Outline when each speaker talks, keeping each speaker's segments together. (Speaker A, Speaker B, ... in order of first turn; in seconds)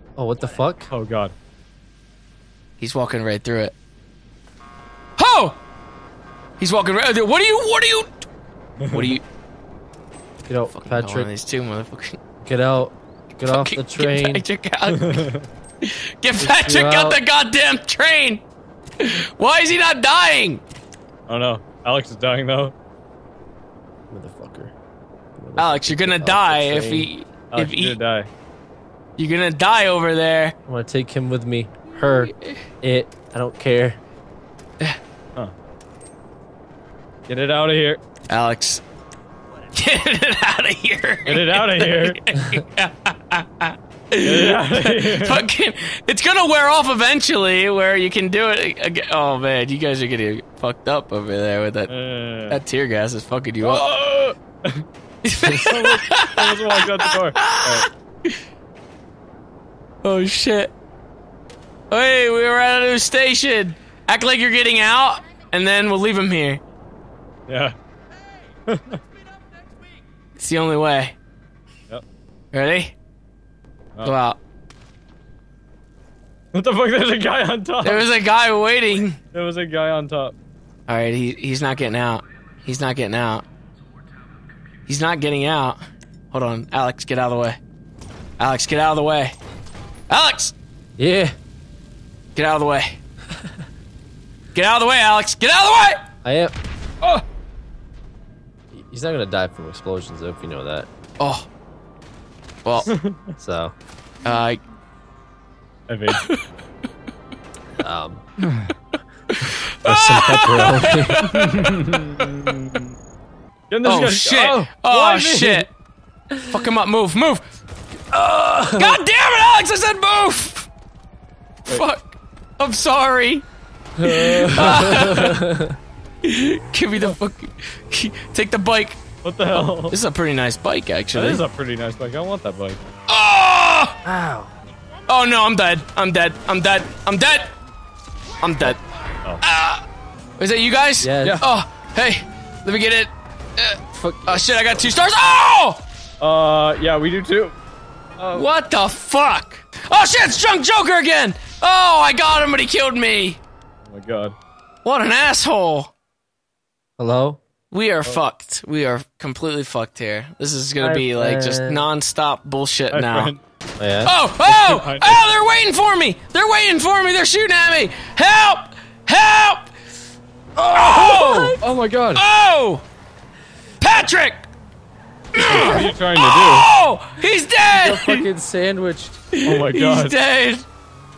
Speaker A: 0.2-0.9, 10.5-11.3, 12.4-14.4, 16.4-17.2, 24.1-24.7, 25.4-27.1, 30.7-34.0, 91.0-91.3, 96.2-96.5, 98.7-100.9, 103.4-103.7, 107.8-108.2, 109.8-111.2, 118.1-119.0, 124.0-125.8, 134.0-134.5, 141.0-141.4, 143.9-144.9, 157.0-157.4, 160.8-161.8, 163.8-164.1, 170.7-171.5, 177.7-179.2
Speaker B: 0.9-1.3, 8.8-9.1, 14.9-15.5, 21.3-22.7, 27.5-28.3, 37.3-38.0, 41.2-42.2, 44.2-45.5, 51.9-52.6, 53.6-54.8, 55.4-57.9, 67.5-67.7, 68.7-69.0, 76.5-78.1, 79.3-80.3, 102.9-103.3, 105.9-106.3, 108.4-108.7, 111.3-113.0, 113.7-115.7, 124.4-124.9, 129.2-130.0, 131.1-132.8, 146.2-147.5, 148.2-148.5, 153.8-154.3, 162.9-163.4, 164.4-165.2, 170.7-172.2, 175.4-176.7, 179.4-180.2
Speaker C: 2.8-3.8, 5.2-5.6, 6.6-8.2, 8.9-9.2, 10.7-12.2, 13.5-15.3, 15.8-18.4, 19.0-20.6, 25.6-28.0, 29.2-30.5, 32.1-32.6, 38.3-38.8, 39.7-51.9, 52.5-53.8, 55.2-58.4, 60.0-60.7, 61.9-66.6, 70.3-71.2, 72.5-73.0, 74.0-74.4, 77.8-79.2, 80.9-83.5, 84.8-85.8, 86.3-87.6, 88.4-89.4, 90.1-90.5, 92.3-93.0, 94.5-96.0, 101.2-101.5, 104.2-104.6, 106.1-106.5, 109.3-112.5, 113.8-115.7, 116.5-117.4, 118.7-120.7, 121.7-123.4, 124.5-125.5, 126.2-129.0, 129.8-131.4, 133.1-134.0, 135.1-137.5, 138.4-138.8, 139.4-139.8, 140.4-145.8, 148.3-153.4, 154.8-155.9, 157.7-163.3, 164.0-169.7, 170.8-171.6, 172.2-172.8, 173.8-174.5, 175.3-178.2, 179.3-180.7